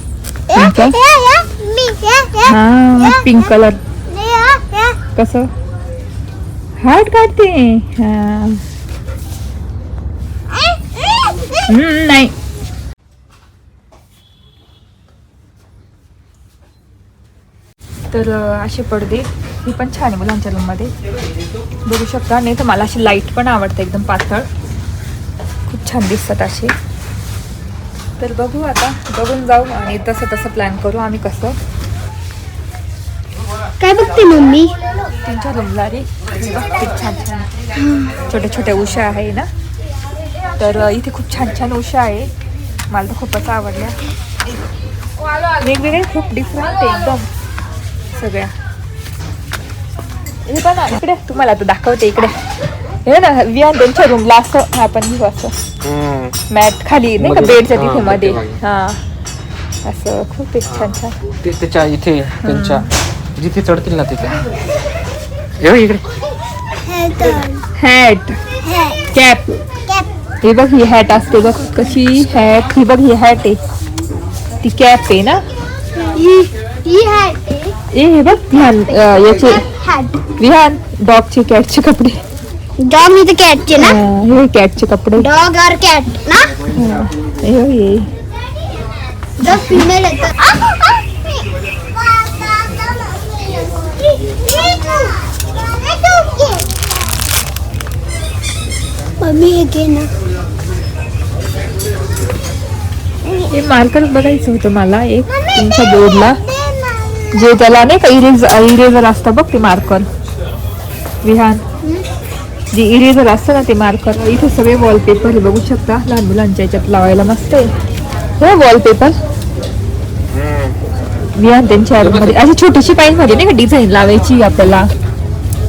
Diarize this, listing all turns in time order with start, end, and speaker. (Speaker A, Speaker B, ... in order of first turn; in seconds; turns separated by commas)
Speaker A: 0.5-3.5, Speaker B: 0.5-1.0, Speaker B: 2.5-3.8, Speaker A: 4.1-5.0, Speaker B: 5.1-5.5, Speaker B: 6.8-8.6, Speaker A: 10.5-11.6, Speaker B: 11.7-12.3, Speaker B: 18.1-20.9, Speaker B: 21.9-24.5, Speaker B: 25.7-26.7, Speaker B: 28.2-31.6, Speaker A: 33.8-34.8, Speaker B: 35.2-37.5, Speaker A: 37.7-38.2, Speaker B: 38.3-39.5, Speaker B: 40.6-42.3, Speaker B: 42.9-44.0, Speaker B: 45.6-47.3, Speaker B: 48.1-48.5, Speaker B: 50.5-52.4, Speaker B: 53.0-55.6, Speaker C: 55.8-56.4, Speaker B: 56.5-59.0, Speaker C: 57.2-58.6, Speaker B: 59.8-61.1, Speaker C: 60.6-64.4, Speaker B: 62.4-62.9, Speaker C: 65.6-66.0, Speaker A: 66.8-67.6, Speaker B: 67.8-68.4, Speaker A: 68.6-69.0, Speaker B: 69.1-69.6, Speaker B: 70.4-73.6, Speaker B: 74.6-75.4, Speaker A: 75.9-77.7, Speaker B: 77.9-79.6, Speaker A: 78.8-80.2, Speaker B: 80.4-82.2, Speaker A: 82.8-84.0, Speaker B: 83.8-85.3, Speaker A: 85.2-86.5, Speaker B: 86.7-88.1, Speaker A: 89.4-96.7, Speaker B: 89.4-89.9, Speaker A: 99.2-100.1, Speaker A: 103.2-103.5, Speaker B: 103.5-106.4, Speaker A: 105.3-107.3, Speaker B: 107.3-110.1, Speaker B: 111.2-111.6, Speaker A: 111.8-112.1, Speaker B: 112.7-117.7, Speaker B: 118.4-119.2, Speaker C: 120.3-120.8, Speaker B: 121.3-124.9, Speaker C: 122.0-122.5